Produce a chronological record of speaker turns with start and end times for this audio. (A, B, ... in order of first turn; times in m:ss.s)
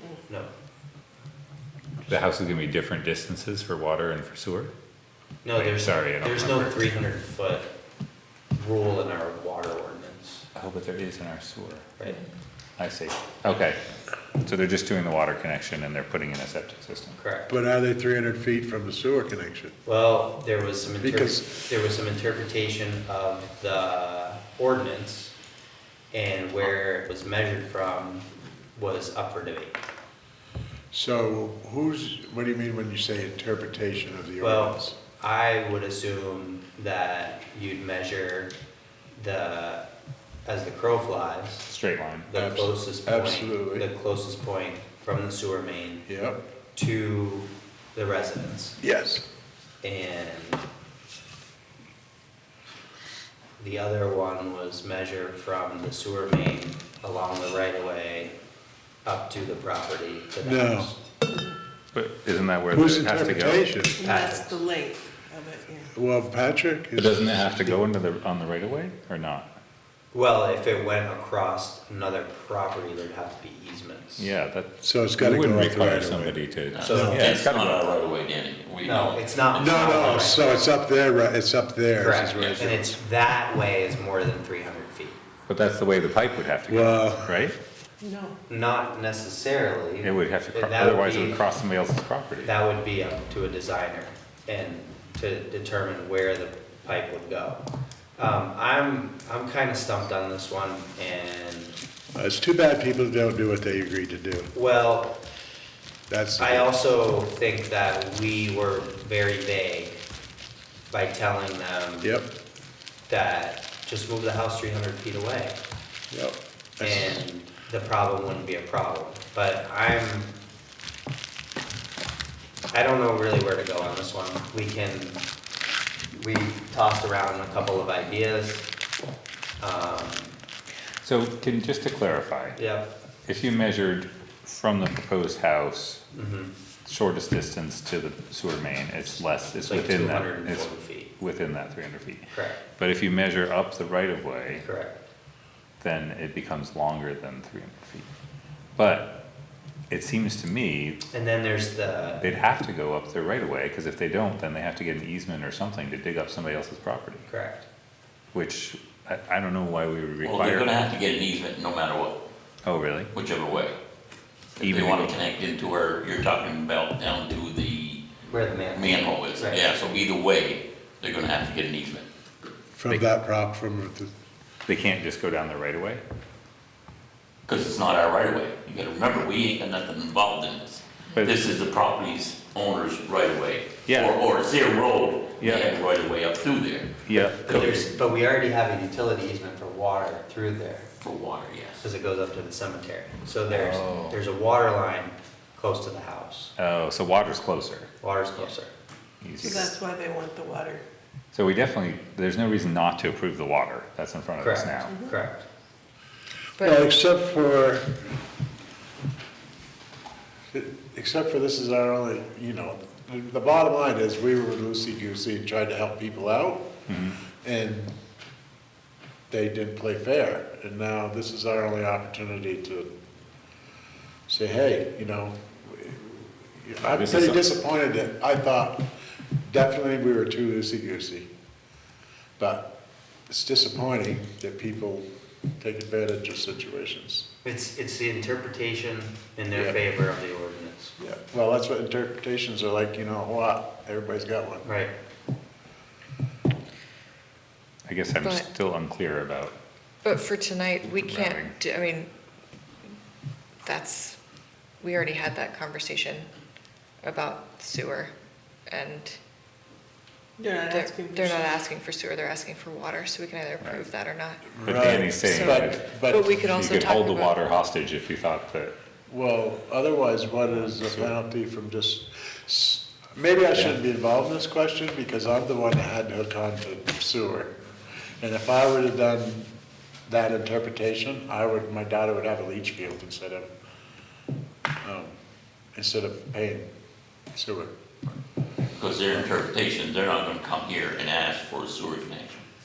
0:02.1-0:04.7 A
0:05.4-0:07.7 B
0:05.5-0:06.8 A
0:08.5-0:10.4 B
0:10.5-0:11.9 A
0:12.0-0:12.2 B
0:12.8-0:13.8 A
0:14.4-0:17.2 A
0:17.2-0:17.5 B
0:17.5-0:19.7 C
0:19.8-0:25.3 B
0:21.0-0:21.6 C
0:26.1-0:29.8 B
0:30.9-0:35.0 C
0:34.4-0:38.5 B
0:39.2-0:39.8 B
0:40.4-0:41.6 B
0:41.6-0:42.3 A
0:42.3-0:46.0 B
0:42.3-0:43.9 C
0:46.1-0:46.4 C
0:46.7-0:48.8 B
0:48.8-0:49.2 C
0:49.8-0:50.6 B
0:53.6-0:58.3 B
0:59.0-1:01.0 B
1:00.4-1:00.9 C
1:01.9-1:03.8 A
1:02.7-1:04.0 C
1:04.0-1:05.9 D
1:04.0-1:04.6 B
1:05.9-1:07.8 C
1:06.9-1:09.5 A
1:10.1-1:14.3 B
1:14.2-1:17.9 A
1:14.8-1:16.4 C
1:16.7-1:20.4 E
1:16.8-1:17.3 B
1:16.9-1:17.2 C
1:18.8-1:20.7 B
1:19.6-1:23.0 C
1:22.0-1:25.2 B
1:22.4-1:22.6 E
1:25.5-1:27.6 A
1:26.6-1:27.4 C
1:28.0-1:28.4 D
1:28.5-1:31.4 B
1:30.0-1:32.5 A
1:32.4-1:37.6 B
1:38.2-1:41.8 B
1:42.1-1:44.5 C
1:44.5-1:45.2 B
1:46.1-1:46.7 C
1:46.4-1:50.0 B
1:50.9-1:52.1 B
1:52.0-1:52.3 C
1:53.1-1:55.6 B
1:56.1-1:57.2 C
1:56.8-2:00.3 B
2:02.7-2:05.2 B
2:06.1-2:08.6 B
2:09.6-2:10.3 B
2:11.0-2:12.6 A
2:12.6-2:12.9 B
2:13.2-2:16.0 A
2:16.1-2:16.5 B
2:16.8-2:24.6 A
2:19.6-2:21.1 B
2:22.3-2:22.6 B
2:24.6-2:25.0 B
2:25.8-2:28.1 A
2:28.8-2:29.2 A
2:29.9-2:31.0 A
2:31.1-2:32.3 B
2:32.2-2:37.2 A
2:37.3-2:37.6 B
2:38.3-2:40.7 A
2:40.2-2:42.2 E
2:42.6-2:43.1 A
2:43.1-2:43.8 E
2:44.6-2:48.0 E
2:44.6-2:45.2 A
2:48.2-2:49.7 B
2:48.7-2:52.0 E
2:52.7-2:54.1 C
2:54.7-2:56.0 A
2:57.4-3:07.9 E
3:03.9-3:04.2 A
3:05.4-3:05.8 A
3:07.0-3:07.6 A
3:07.4-3:10.9 B
3:11.0-3:11.9 E
3:11.8-3:16.5 B
3:13.5-3:14.2 A
3:16.6-3:17.9 A
3:18.0-3:18.7 B
3:19.2-3:19.7 A
3:19.4-3:20.8 D
3:21.3-3:25.0 A
3:24.4-3:25.4 B
3:24.9-3:25.2 D
3:26.6-3:26.9 F
3:26.6-3:28.0 C
3:30.5-3:36.7 C
3:36.9-3:37.2 A
3:37.4-3:37.9 C
3:39.3-3:42.9 C
3:44.3-3:48.8 C
3:46.8-3:47.4 A
3:49.4-3:51.3 C
3:52.4-3:52.7 C
3:53.3-3:55.0 C
3:55.6-3:57.2 C
3:57.4-4:00.9 B
3:59.5-3:59.8 C
4:01.0-4:04.6 C
4:04.6-4:04.9 B
4:07.9-4:09.5 A
4:08.2-4:08.5 F
4:10.0-4:12.1 F
4:10.8-4:11.5 A
4:13.6-4:14.2 F
4:14.8-4:16.3 F
4:17.0-4:18.1 F
4:18.7-4:19.2 F
4:20.4-4:21.6 D
4:20.7-4:24.6 F
4:24.5-4:26.4 C
4:24.6-4:25.9 A
4:25.3-4:27.4 F
4:26.5-4:28.7 A
4:29.1-4:37.5 C
4:30.6-4:31.1 A
4:38.2-4:39.5 C
4:40.1-4:43.5 C
4:44.8-4:45.1 C
4:45.7-4:46.7 C
4:47.3-4:47.7 C
4:48.8-4:52.4 E